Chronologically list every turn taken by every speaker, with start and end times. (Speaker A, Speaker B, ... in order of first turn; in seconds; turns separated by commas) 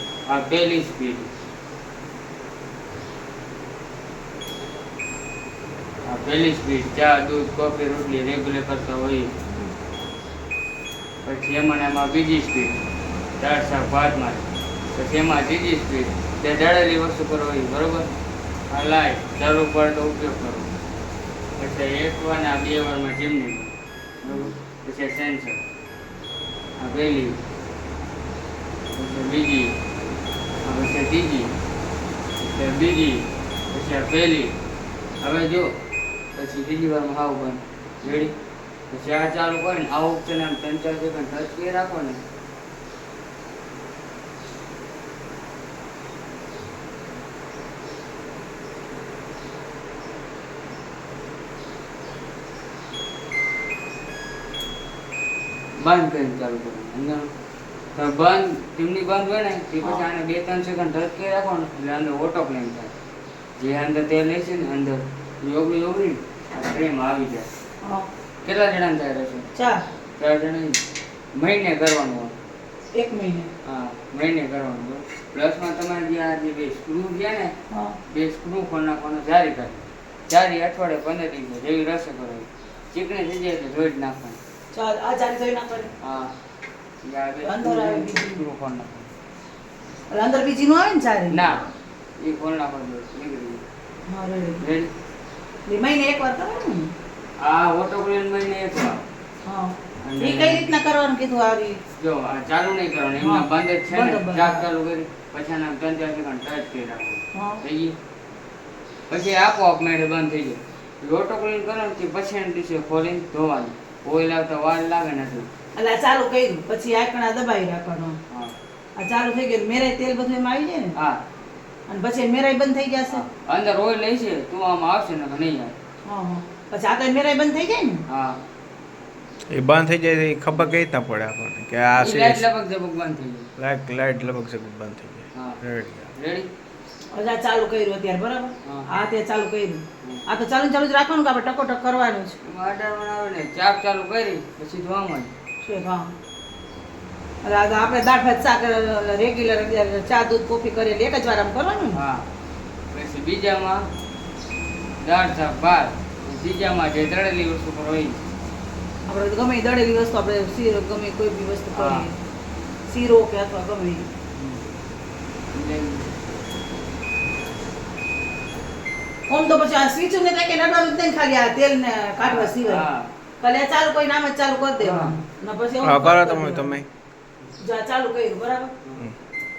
Speaker A: 0.3-1.3, Speaker A: 6.0-9.3, Speaker B: 9.5-9.7, Speaker A: 11.2-12.8, Speaker A: 13.4-18.1, Speaker A: 18.7-20.7, Speaker A: 21.6-23.7, Speaker B: 24.2-24.5, Speaker A: 24.3-25.6, Speaker A: 26.8-27.4, Speaker A: 28.9-29.7, Speaker A: 30.6-31.5, Speaker A: 32.4-34.5, Speaker A: 35.2-35.7, Speaker A: 36.3-38.3, Speaker B: 38.0-38.3, Speaker A: 38.9-42.2, Speaker A: 55.8-57.3, Speaker A: 57.9-62.9, Speaker A: 63.6-67.5, Speaker A: 68.4-69.5, Speaker B: 69.5-69.8, Speaker A: 70.2-70.8, Speaker A: 71.3-72.3, Speaker B: 72.9-73.5, Speaker A: 73.6-77.5, Speaker A: 78.1-84.4, Speaker B: 84.7-85.9, Speaker A: 86.0-86.3, Speaker A: 87.0-89.1, Speaker B: 87.4-88.4, Speaker B: 90.1-91.4, Speaker A: 91.3-91.7, Speaker A: 92.2-93.6, Speaker B: 94.1-94.6, Speaker A: 94.6-94.9, Speaker B: 95.7-96.9, Speaker A: 97.4-99.0, Speaker B: 99.4-101.8, Speaker A: 100.0-100.7, Speaker A: 102.0-107.9, Speaker B: 103.2-104.6, Speaker B: 107.3-107.6, Speaker A: 109.1-115.5, Speaker B: 115.8-118.2, Speaker A: 118.3-118.5, Speaker B: 119.0-120.9, Speaker A: 120.9-121.2, Speaker B: 121.9-123.2, Speaker A: 123.1-125.7, Speaker B: 126.0-128.0, Speaker A: 128.1-128.4, Speaker C: 129.5-132.4, Speaker A: 131.9-133.5, Speaker C: 133.6-136.1, Speaker A: 135.3-135.6, Speaker A: 136.1-136.5, Speaker B: 137.1-142.4, Speaker A: 138.6-138.9, Speaker A: 142.4-145.3, Speaker B: 145.6-146.1, Speaker B: 147.4-152.0, Speaker A: 151.9-152.3, Speaker A: 152.9-153.9, Speaker A: 155.0-158.2, Speaker B: 159.1-162.2, Speaker A: 161.7-162.1, Speaker B: 162.9-164.1, Speaker A: 164.3-164.6, Speaker A: 165.5-166.1, Speaker B: 169.3-172.8, Speaker A: 172.2-173.1, Speaker B: 173.4-176.8, Speaker A: 174.8-175.2, Speaker C: 175.8-176.9, Speaker B: 177.6-178.7